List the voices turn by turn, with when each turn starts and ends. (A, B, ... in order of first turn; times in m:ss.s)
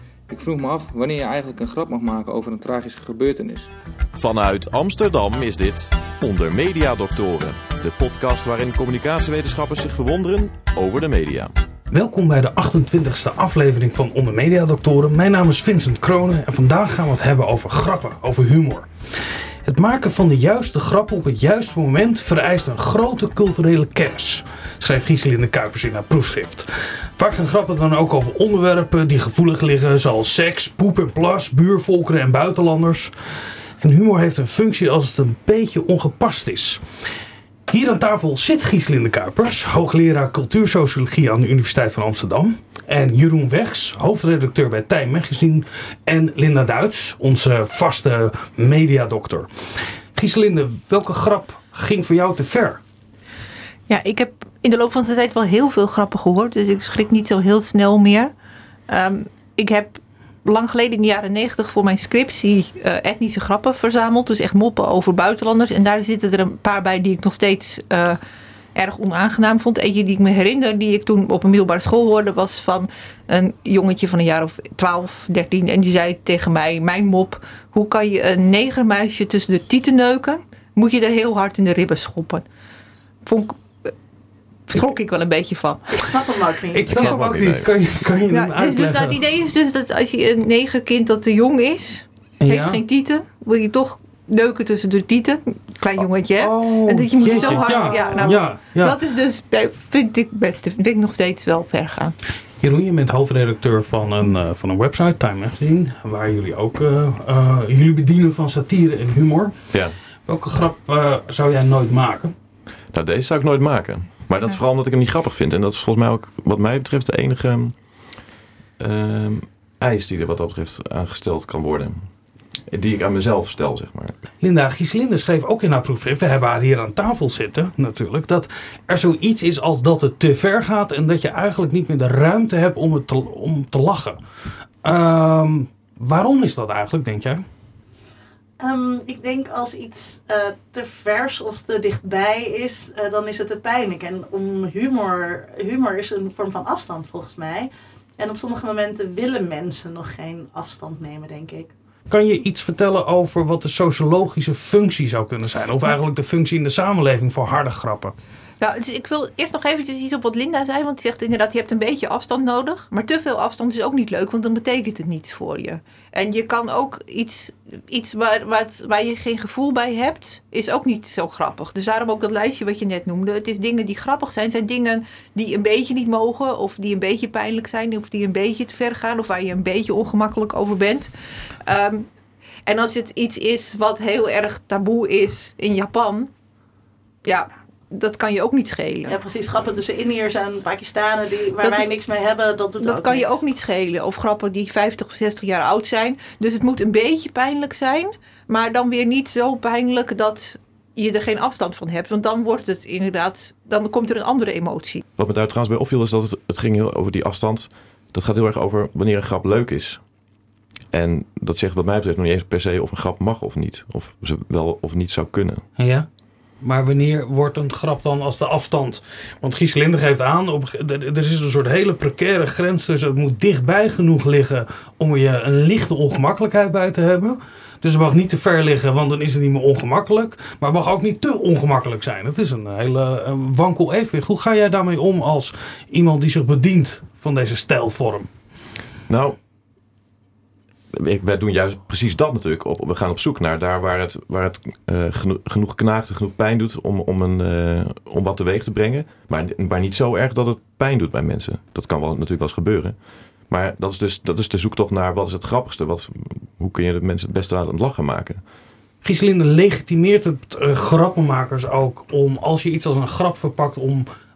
0:00.3-0:03.7 A
0:04.2-0:11.5 B
0:11.9-0:33.1 C
0:33.8-0:36.8 C
0:37.7-0:52.8 C
0:53.9-0:58.3 D
0:58.9-1:08.2 D
1:08.7-1:22.4 D
1:23.2-1:23.9 D
1:24.7-1:26.0 D
1:25.9-1:27.2 E
1:26.7-1:29.2 C
1:26.9-1:27.7 B
1:28.3-1:42.1 D
1:32.4-1:32.8 C
1:36.4-1:39.0 C
1:37.3-1:38.4 E
1:42.6-1:52.3 C
1:52.9-1:58.2 B
1:58.8-2:02.1 B
2:02.7-2:04.2 B
2:04.4-2:14.2 C
2:14.8-2:17.4 C
2:18.6-2:31.7 E
2:32.1-2:38.1 C
2:38.6-3:01.1 D
3:01.6-3:02.1 D
3:02.6-3:06.3 D
3:07.2-3:09.2 D
3:09.0-3:13.4 E
3:11.6-3:11.9 D
3:12.8-3:25.0 D
3:25.2-3:30.0 B
3:30.9-3:35.6 B
3:35.8-3:36.1 C
3:36.6-3:58.3 C
3:59.1-3:59.4 B
4:00.9-4:18.4 B
4:19.0-4:24.0 C